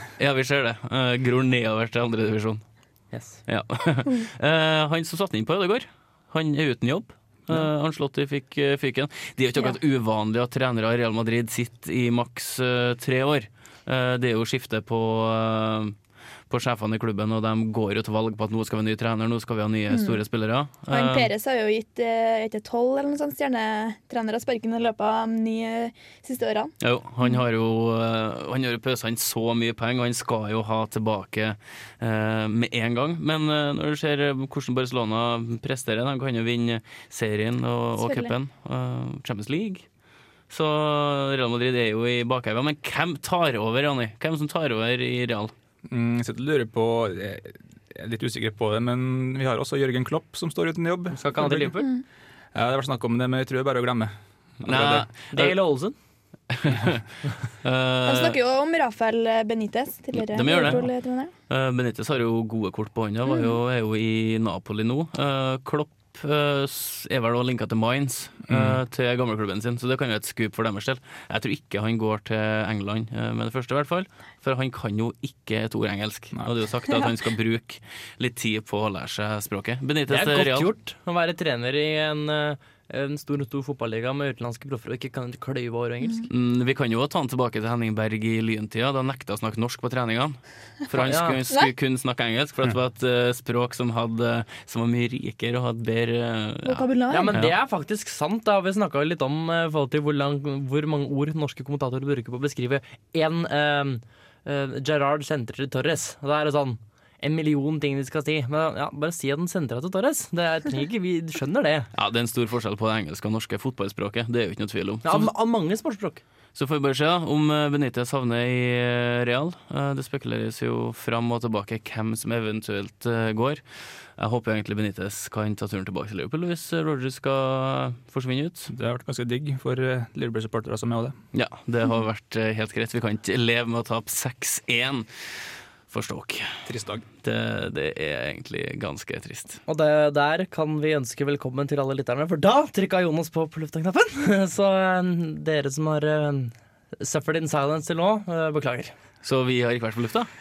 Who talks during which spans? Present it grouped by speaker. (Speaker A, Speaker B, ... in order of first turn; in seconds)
Speaker A: 0.2-2.6, 3.5-15.9, 16.5-21.3, 26.8-39.8, 40.5-45.5, 54.6-55.5, 56.5-57.0, 57.6-58.4, 60.1-60.9, 61.5-80.7, 86.3-97.5, 111.9-115.3, 116.5-123.6, 124.2-128.7, 131.3-135.1, 135.9-136.5, 137.2-139.6, 149.2-150.3
Speaker B: 3.1-3.4, 51.1-51.9, 55.3-55.9, 80.1-86.3, 91.0-91.4, 97.1-111.9, 115.0-116.2, 139.7-148.9
Speaker C: 19.9-20.2, 20.9-27.4, 38.0-38.3, 58.0-61.3, 63.2-63.5, 96.6-97.4
Speaker D: 45.9-51.8, 52.5-55.1, 68.5-68.8, 128.7-131.2, 136.7-137.0